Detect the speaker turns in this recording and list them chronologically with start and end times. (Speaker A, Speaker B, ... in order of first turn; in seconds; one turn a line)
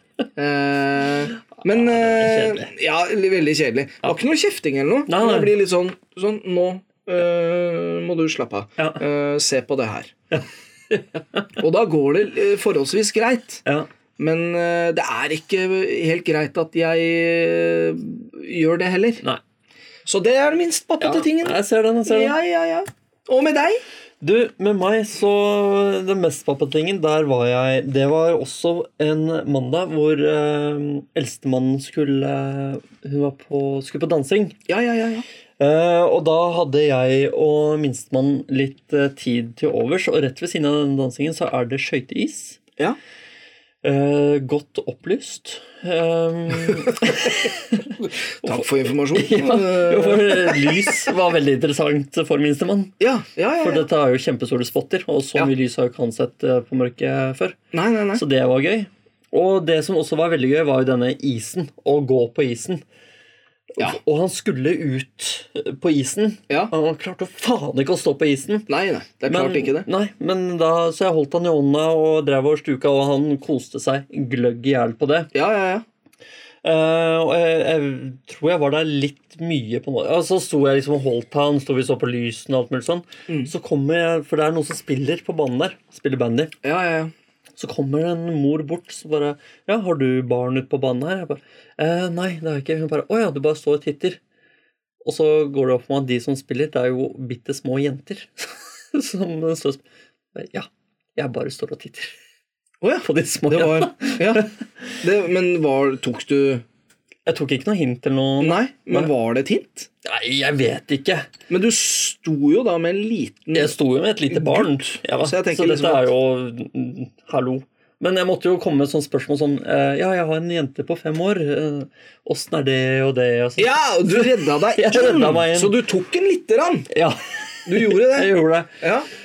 Speaker A: 0.3-10.1
Speaker B: 1.6-2.7
Speaker B: 5.1-5.5
Speaker B: 10.3-11.6
Speaker A: 11.6-13.6
Speaker A: 14.2-19.2
Speaker A: 20.1-23.8
Speaker B: 21.0-22.3
Speaker B: 24.2-34.6
Speaker A: 34.7-35.2
Speaker B: 35.6-42.6
Speaker B: 43.8-52.9
Speaker A: 48.0-50.9
Speaker A: 53.0-53.9
Speaker B: 53.6-57.6
Speaker A: 57.7-58.2
Speaker B: 58.1-62.8
Speaker B: 63.7-68.7
Speaker A: 68.7-69.9
Speaker B: 69.3-75.3
Speaker A: 75.3-75.8
Speaker B: 76.6-86.5
Speaker A: 86.6-87.1
Speaker B: 87.6-94.2
Speaker B: 95.0-102.1
Speaker A: 102.8-104.5
Speaker B: 103.0-104.6
Speaker A: 105.0-106.6
Speaker B: 107.2-109.1
Speaker A: 108.4-109.9
Speaker B: 110.0-111.3
Speaker A: 111.5-113.8
Speaker B: 113.5-125.8
Speaker A: 114.3-116.1
Speaker A: 123.6-126.9
Speaker B: 126.9-128.8
Speaker A: 127.7-129.1